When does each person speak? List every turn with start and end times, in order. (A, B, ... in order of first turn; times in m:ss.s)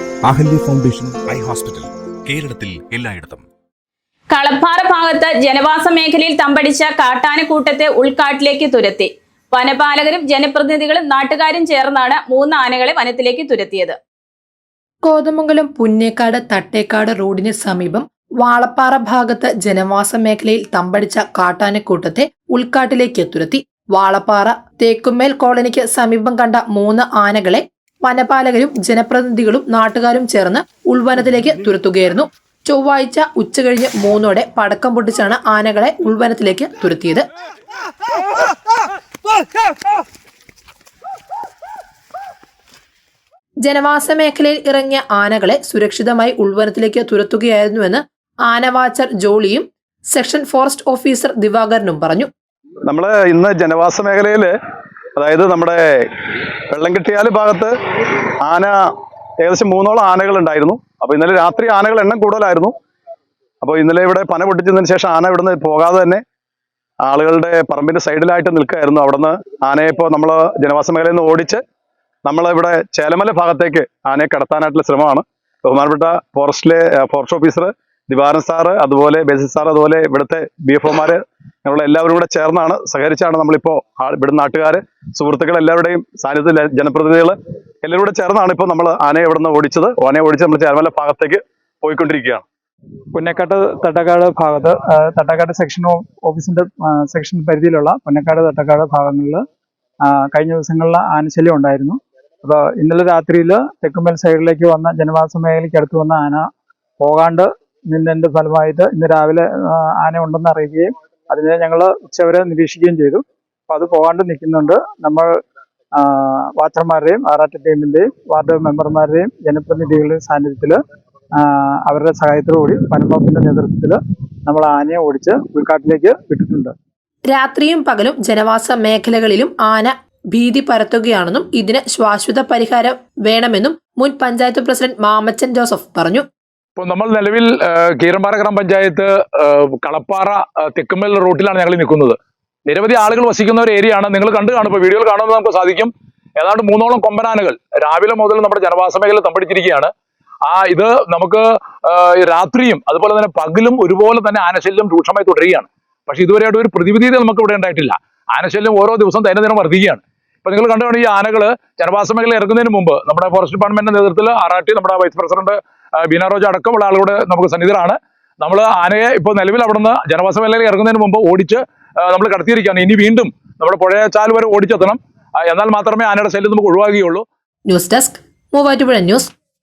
0:00.3-0:03.4 A
0:04.4-0:13.9 B
0:15.0-0:37.2 C
0:43.6-0:52.3 C
0:52.9-0:54.5 D
0:55.2-0:56.0 D
0:56.7-0:57.7 D
0:58.4-0:58.7 D
0:59.4-1:02.7 D
1:03.6-1:06.2 D
1:07.0-1:11.6 D
1:12.3-1:32.4 D
1:33.1-1:39.4 E
1:40.0-1:46.5 E
1:47.0-1:55.4 E
1:56.0-2:00.8 E
2:01.4-2:06.7 E
2:07.3-2:16.3 C
2:16.8-2:22.2 F
2:22.7-2:29.9 F
2:30.5-2:57.2 F
2:57.7-2:59.3 C